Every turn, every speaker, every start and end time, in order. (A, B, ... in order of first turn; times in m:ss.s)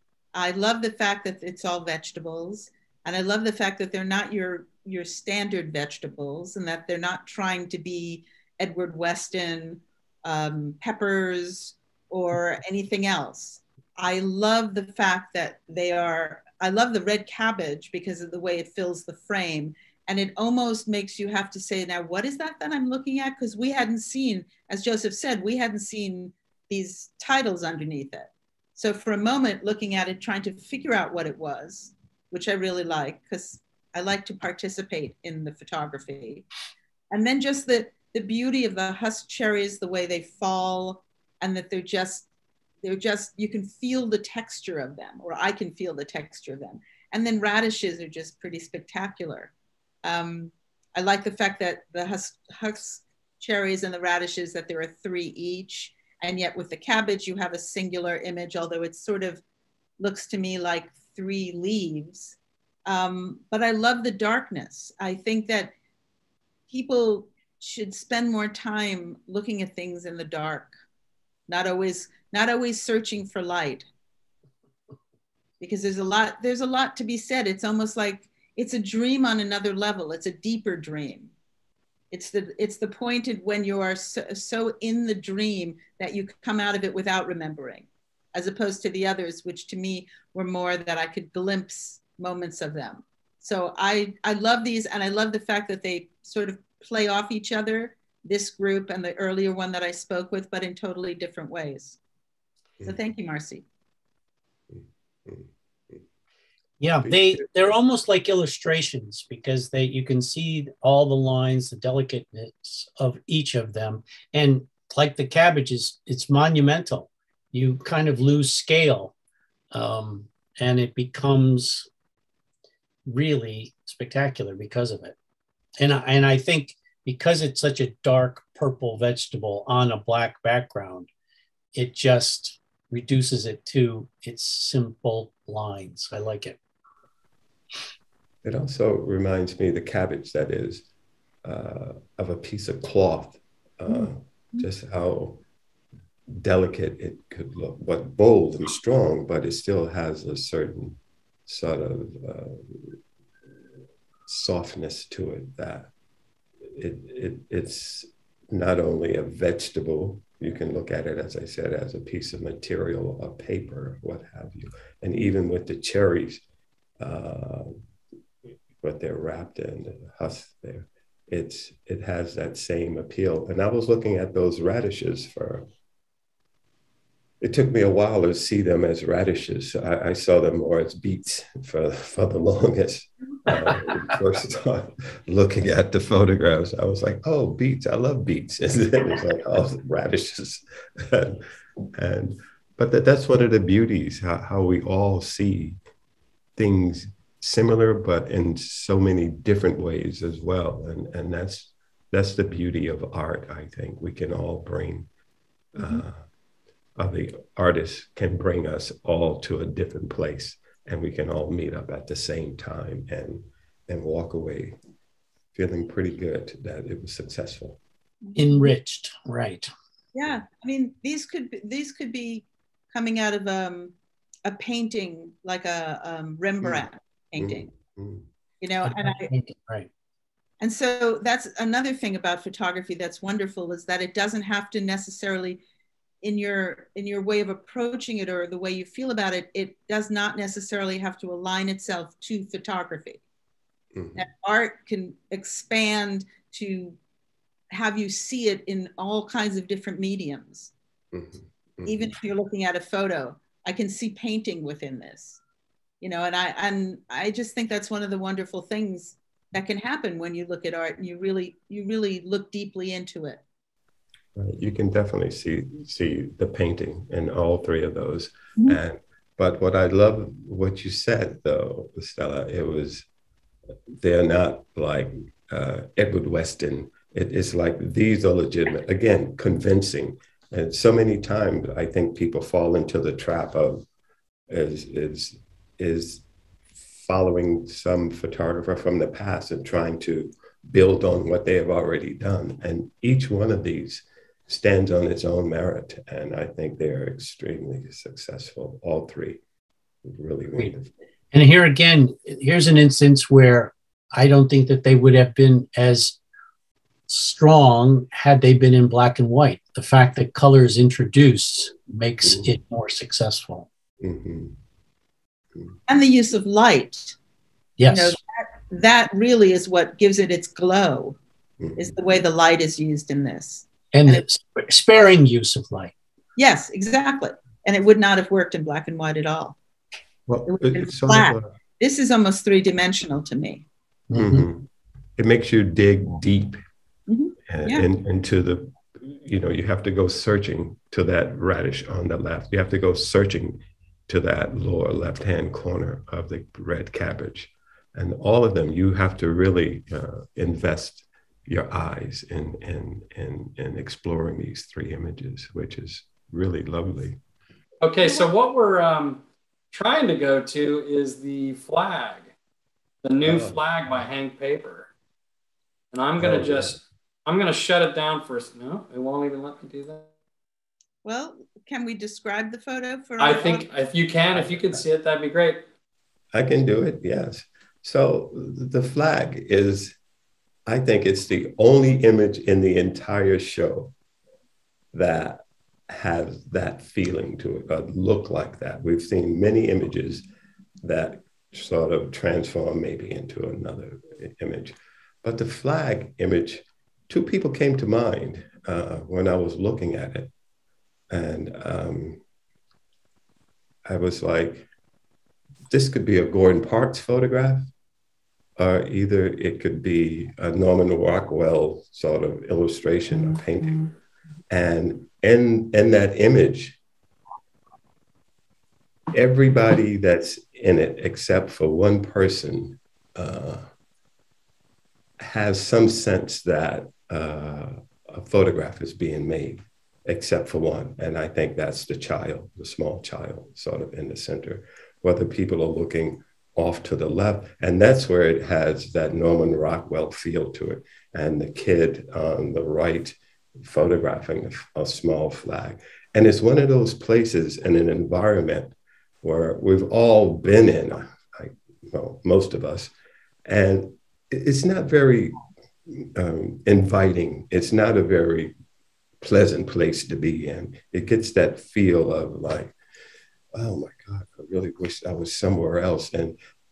0:00.3-0:36.4 A
0:37.1-0:42.3 A
0:42.8-0:49.5 A
0:50.0-0:59.4 A
1:00.0-1:05.7 A
1:06.7-1:10.7 A
1:11.5-1:13.8 A
1:15.6-1:21.3 A
1:22.1-1:42.0 A
1:42.8-1:43.6 A
1:44.7-1:46.0 B
1:46.8-1:59.1 C
1:47.0-1:47.5 B
1:59.7-2:01.9 C
2:03.0-2:05.2 C
2:05.8-2:11.1 C
2:11.7-2:16.6 C
2:18.4-2:20.8 B
2:21.4-2:25.4 B
2:26.3-2:33.0 B
2:34.3-2:35.9 B
2:36.6-2:46.4 B
2:47.0-2:47.8 B
2:48.8-2:55.6 B
2:57.4-3:11.4 B
3:11.9-3:15.8 B
3:16.6-3:25.1 B
3:25.7-3:26.2 B
3:27.0-3:34.8 B
3:35.5-3:37.8 B
3:38.2-3:38.7 A
3:38.4-3:39.7 C
3:40.1-3:43.9 A
3:44.4-3:47.7 A
3:47.4-3:48.3 B
3:48.6-3:49.3 A
3:48.8-3:49.9 C
3:50.6-3:55.6 A
3:56.2-4:03.2 A
4:03.9-4:04.2 B
4:04.1-4:07.0 A
4:07.7-4:10.7 A
4:11.1-4:12.1 B
4:11.8-4:15.4 A
4:16.0-4:23.4 A
4:24.3-4:33.0 B
4:33.9-4:43.9 B
4:44.5-4:46.2 B
4:46.8-4:59.4 B
5:00.0-5:00.9 B
5:01.3-5:06.2 C
5:07.1-5:13.7 C
5:14.0-5:14.6 B
5:15.5-5:15.8 B
5:15.9-5:17.2 A
5:17.8-5:18.2 C
5:17.9-5:21.2 A
5:21.6-5:21.9 B
5:21.8-5:24.2 A
5:23.9-5:25.9 C
5:26.4-5:29.6 A
5:30.3-5:31.5 B
5:30.4-5:33.6 A
5:34.1-5:34.4 C
5:34.1-5:36.6 B
5:37.1-5:37.9 A
5:37.5-5:57.2 B
5:57.8-6:02.3 D
6:03.0-6:04.9 D
6:03.2-6:03.6 B
6:05.9-6:10.1 D
6:06.2-6:06.8 B
6:11.0-6:13.6 A
6:13.2-6:15.6 D
6:14.3-6:14.7 B
6:16.3-6:20.0 B
6:20.7-6:23.9 B
6:24.9-6:30.3 B
6:30.8-6:40.3 B
6:41.1-6:42.2 B
6:43.8-6:44.7 B
6:45.7-6:47.7 B
6:48.6-6:53.9 B
6:54.5-6:56.8 B
6:59.1-7:03.7 B
7:05.2-7:32.9 B
7:33.4-7:38.5 B
7:39.2-7:42.7 B
7:43.5-7:46.4 B